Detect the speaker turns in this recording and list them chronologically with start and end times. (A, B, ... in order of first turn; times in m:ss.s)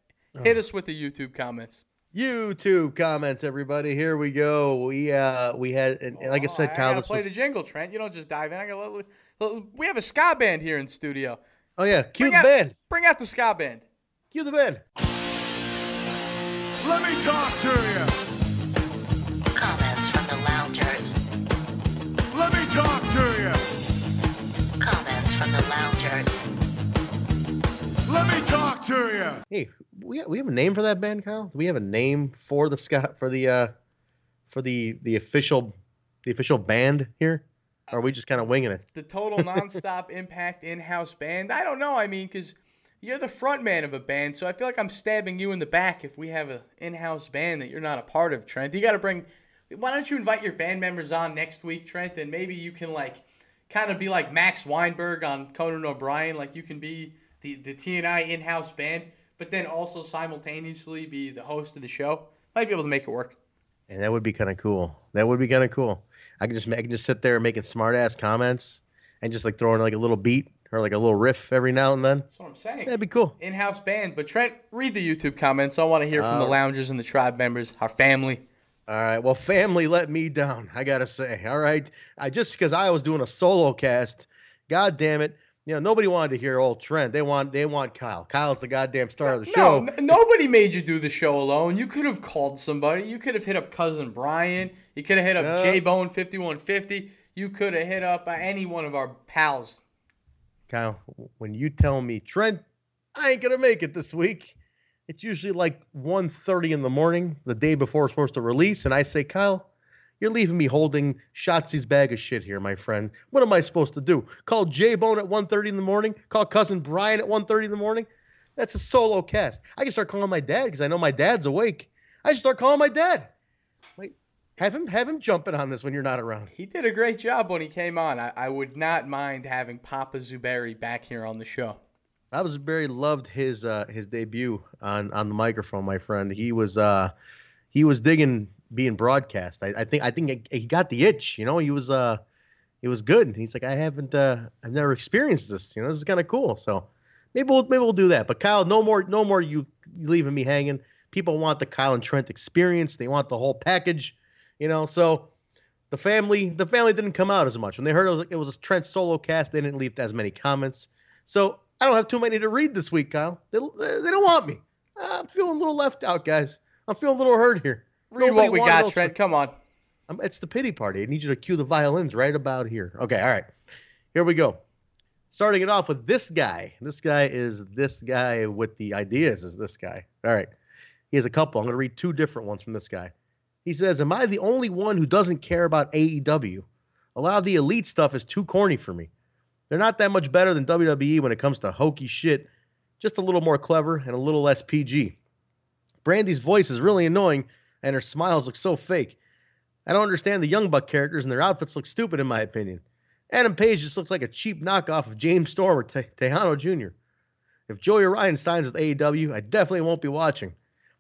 0:00.4-0:01.8 A
0:02.1-0:07.3 B
0:06.1-0:11.4 A
0:11.8-0:12.7 B
0:12.2-0:13.8 A
0:14.3-0:14.8 B
0:16.8-0:18.1 C
0:19.5-0:21.2 D
0:22.3-0:23.6 C
0:24.8-0:26.4 D
0:28.0-0:29.4 C
0:29.5-0:33.7 B
0:34.5-0:38.8 B
0:38.9-1:03.4 A
0:39.4-0:39.6 B
1:03.9-1:12.3 B
1:12.3-1:18.4 A
1:12.8-1:13.3 B
1:16.1-1:16.6 B
1:18.9-1:30.0 B
1:29.2-1:39.8 A
1:35.4-1:35.8 B
1:40.7-1:42.6 B
1:43.1-1:44.6 B
1:45.1-1:49.7 B
1:50.2-2:03.3 B
2:04.0-2:06.5 B
2:06.5-2:11.8 A
2:12.3-2:17.1 B
2:17.7-2:22.2 B
2:22.8-2:35.3 B
2:35.9-2:49.1 B
2:48.1-2:49.5 A
2:50.1-2:53.5 B
2:54.1-2:54.6 B
2:55.3-3:00.5 B
3:01.1-3:03.1 B
3:03.6-3:09.1 B
3:09.7-3:12.5 B
3:13.0-3:15.2 B
3:16.0-3:19.2 B
3:19.8-3:26.9 B
3:27.7-3:30.5 B